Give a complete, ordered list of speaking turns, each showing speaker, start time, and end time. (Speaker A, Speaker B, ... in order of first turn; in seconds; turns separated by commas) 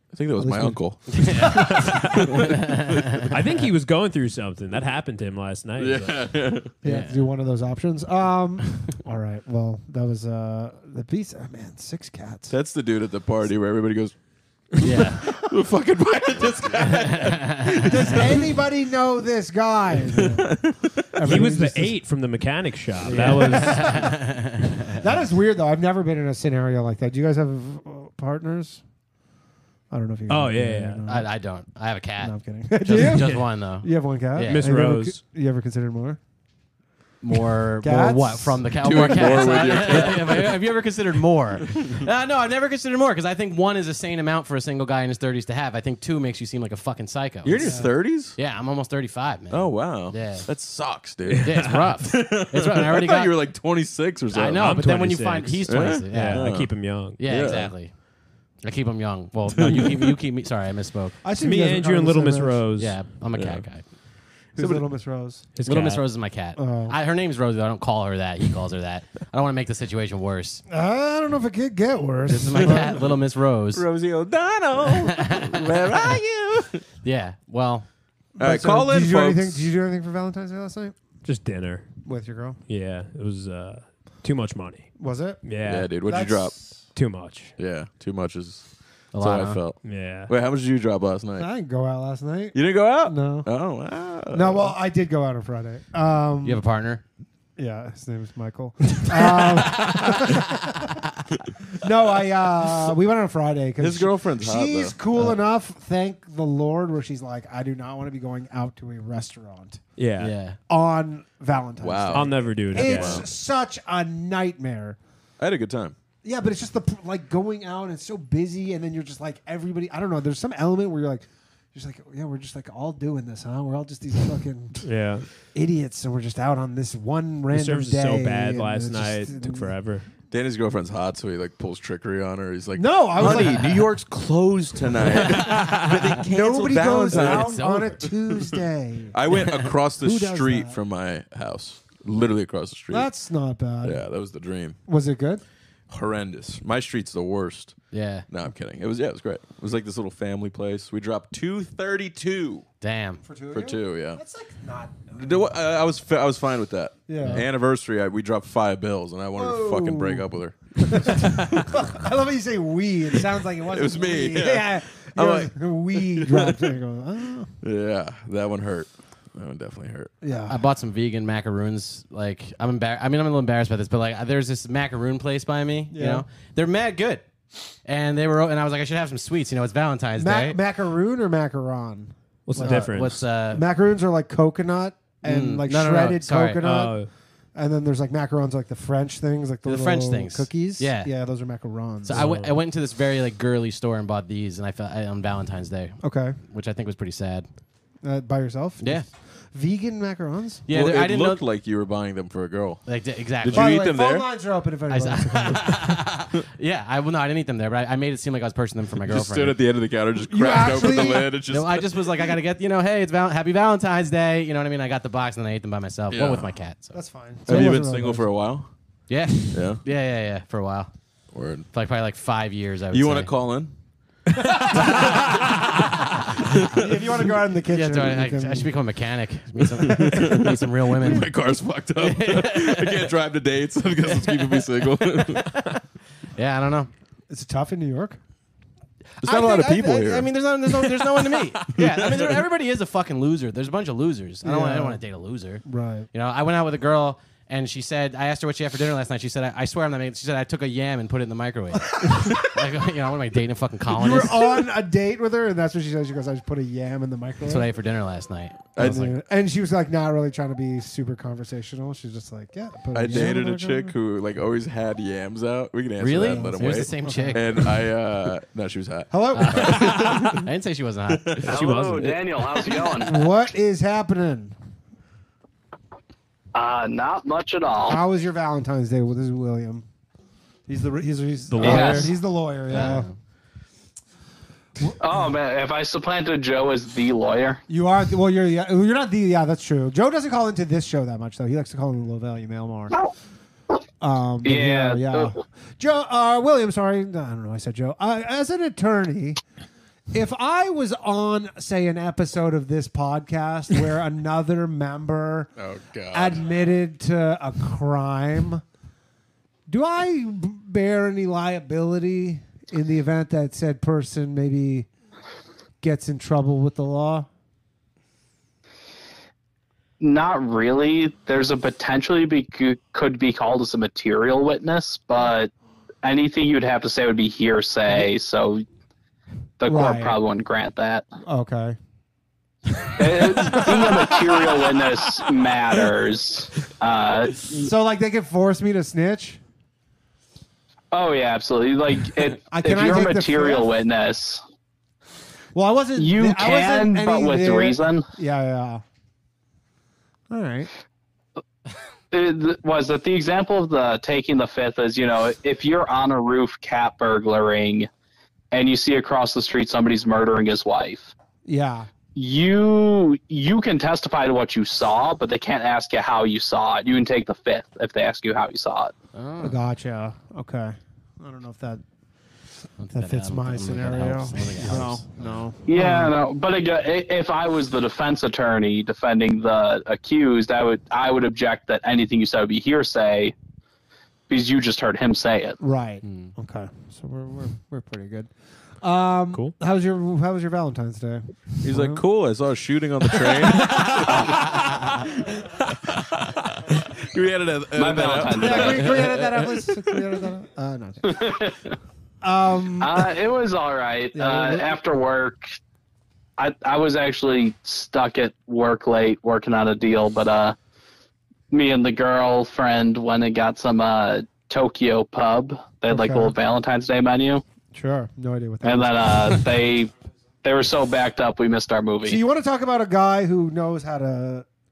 Speaker A: 0.1-2.5, Speaker B: 0.3-0.8, Speaker C: 1.1-3.3, Speaker D: 3.3-6.3, Speaker A: 5.8-6.7, Speaker B: 6.8-12.5, Speaker C: 6.8-7.2, Speaker A: 12.5-14.1, Speaker C: 14.8-15.2, Speaker A: 15.0-18.2, Speaker C: 16.8-17.9, Speaker B: 17.8-20.6, Speaker A: 20.2-21.1, Speaker B: 21.1-22.0, Speaker D: 21.2-24.1, Speaker C: 23.0-25.0, Speaker B: 23.1-23.9, Speaker B: 25.0-28.8, Speaker B: 29.9-31.3, Speaker D: 30.3-31.0, Speaker C: 31.1-34.6, Speaker B: 32.2-36.2, Speaker D: 33.0-33.5, Speaker D: 34.4-35.2, Speaker C: 37.2-50.5, Speaker B: 37.8-38.6, Speaker A: 38.8-40.6, Speaker A: 47.4-48.4, Speaker B: 47.6-47.9, Speaker A: 49.5-54.6, Speaker D: 51.4-51.9, Speaker C: 51.4-53.4, Speaker C: 54.3-56.5, Speaker D: 54.5-57.2, Speaker A: 55.7-57.7, Speaker C: 57.2-57.9, Speaker C: 58.6-61.2, Speaker A: 59.5-60.2, Speaker B: 61.2-62.6, Speaker D: 61.4-63.0, Speaker C: 62.8-63.8, Speaker A: 63.3-63.6, Speaker A: 64.5-64.8, Speaker B: 64.5-65.5, Speaker D: 65.5-66.1, Speaker C: 65.6-70.6, Speaker B: 66.5-67.0, Speaker B: 70.7-73.0, Speaker C: 72.3-73.8, Speaker A: 73.7-76.8, Speaker C: 75.0-76.2, Speaker C: 77.0-77.8, Speaker B: 78.4-81.0, Speaker A: 78.4-79.7, Speaker D: 81.2-81.9, Speaker B: 82.0-82.6, Speaker D: 82.7-84.9, Speaker B: 85.0-86.8, Speaker D: 85.4-85.9, Speaker A: 85.7-86.5, Speaker D: 86.9-87.5, Speaker A: 87.6-91.5, Speaker C: 89.1-89.6, Speaker D: 89.8-90.3, Speaker B: 91.4-93.5, Speaker A: 92.5-94.7, Speaker B: 94.3-96.6, Speaker C: 96.4-97.0, Speaker B: 97.6-101.0, Speaker B: 101.7-109.8, Speaker A: 103.8-105.0, Speaker D: 110.0-110.3, Speaker C: 110.2-110.6, Speaker B: 110.7-115.0, Speaker A: 111.8-113.2, Speaker D: 112.1-113.2, Speaker A: 115.4-115.9, Speaker B: 116.2-124.8, Speaker D: 124.8-125.3, Speaker B: 125.5-129.7, Speaker D: 127.5-130.1, Speaker A: 130.3-137.8, Speaker B: 132.7-133.9, Speaker B: 136.3-139.2, Speaker C: 137.1-138.1, Speaker A: 139.1-143.1, Speaker B: 140.0-140.8, Speaker B: 142.9-144.0, Speaker A: 143.8-144.8, Speaker B: 144.9-145.4, Speaker A: 145.9-147.8, Speaker C: 147.9-148.2, Speaker A: 148.3-152.6, Speaker C: 152.8-153.2, Speaker B: 153.2-155.5, Speaker A: 153.5-154.2, Speaker A: 155.2-161.2, Speaker B: 157.1-157.4, Speaker B: 159.3-160.2, Speaker B: 160.8-167.5, Speaker A: 163.7-166.6, Speaker A: 167.6-170.1, Speaker B: 170.2-170.6, Speaker C: 170.5-177.2, Speaker B: 175.9-176.2, Speaker C: 177.8-180.6, Speaker B: 180.2-183.0, Speaker D: 182.5-183.2, Speaker C: 182.6-183.6, Speaker B: 183.5-187.0, Speaker C: 185.2-186.7, Speaker D: 186.6-187.1, Speaker B: 187.5-192.3, Speaker C: 189.7-191.1, Speaker C: 192.0-197.5, Speaker D: 192.1-192.6, Speaker B: 196.0-196.4, Speaker B: 198.0-200.6, Speaker C: 198.8-199.1, Speaker C: 200.7-201.4, Speaker A: 200.7-202.8, Speaker C: 202.8-203.9, Speaker A: 203.4-204.3, Speaker B: 203.5-205.6, Speaker C: 204.9-209.6, Speaker A: 209.1-212.0, Speaker B: 210.3-211.3, Speaker C: 211.5-216.9, Speaker A: 216.1-216.5, Speaker B: 216.9-218.3, Speaker A: 217.5-218.7, Speaker C: 219.1-220.9, Speaker A: 219.5-219.8, Speaker A: 221.3-221.7, Speaker C: 221.7-223.3, Speaker A: 222.9-223.7, Speaker C: 224.7-225.6, Speaker A: 224.8-225.1, Speaker B: 226.7-228.7, Speaker C: 227.7-231.3, Speaker A: 229.8-235.6, Speaker C: 232.0-233.1, Speaker C: 234.3-234.6, Speaker C: 235.2-235.6, Speaker C: 236.3-236.9, Speaker B: 237.3-238.2, Speaker A: 239.2-240.3, Speaker B: 239.2-240.2, Speaker C: 239.8-254.5, Speaker A: 241.8-242.4, Speaker B: 244.4-245.0, Speaker B: 245.6-246.1, Speaker B: 252.0-252.3, Speaker B: 253.9-257.6, Speaker C: 257.4-259.1, Speaker A: 258.8-259.0, Speaker B: 258.8-263.9, Speaker A: 262.9-270.4, Speaker C: 266.0-267.4, Speaker B: 266.3-267.7, Speaker B: 269.1-270.3, Speaker C: 269.3-271.6, Speaker A: 271.1-271.6, Speaker E: 271.4-273.2, Speaker D: 271.5-272.1, Speaker B: 272.9-274.6, Speaker E: 276.5-278.0, Speaker B: 277.8-279.8, Speaker B: 280.7-283.1, Speaker D: 281.5-282.1, Speaker E: 281.6-282.0, Speaker C: 282.7-283.1, Speaker E: 285.0-287.6, Speaker B: 287.7-293.0, Speaker B: 294.0-299.4, Speaker E: 294.4-295.4, Speaker B: 300.1-305.5, Speaker A: 305.6-306.4, Speaker B: 306.1-308.6, Speaker B: 309.7-314.9, Speaker B: 315.8-317.3, Speaker E: 320.0-325.5, Speaker E: 326.0-328.6, Speaker E: 329.6-331.1, Speaker B: 329.6-330.2, Speaker B: 331.2-331.8, Speaker E: 333.0-337.7, Speaker B: 333.4-334.3, Speaker B: 337.5-339.4, Speaker E: 340.9-344.4, Speaker B: 342.5-343.7, Speaker B: 345.5-348.8, Speaker E: 345.9-348.1, Speaker B: 350.3-350.7, Speaker E: 352.1-357.9, Speaker E: 358.5-361.1, Speaker B: 361.4-361.9, Speaker E: 362.1-368.9, Speaker C: 369.1-369.6, Speaker B: 369.4-371.8, Speaker C: 372.8-375.4, Speaker B: 372.9-376.1, Speaker E: 375.7-383.3, Speaker E: 384.3-385.6, Speaker B: 385.6-392.0, Speaker C: 386.0-386.3, Speaker A: 391.6-399.5, Speaker B: 393.2-393.9, Speaker E: 397.8-398.8, Speaker B: 398.3-401.2, Speaker E: 401.0-401.7, Speaker B: 402.2-403.0, Speaker E: 402.8-405.4, Speaker B: 404.1-404.7, Speaker E: 406.4-410.6, Speaker E: 411.5-417.4, Speaker B: 415.9-416.3, Speaker B: 417.7-419.4, Speaker E: 418.6-419.9, Speaker E: 420.4-422.2, Speaker B: 422.0-424.4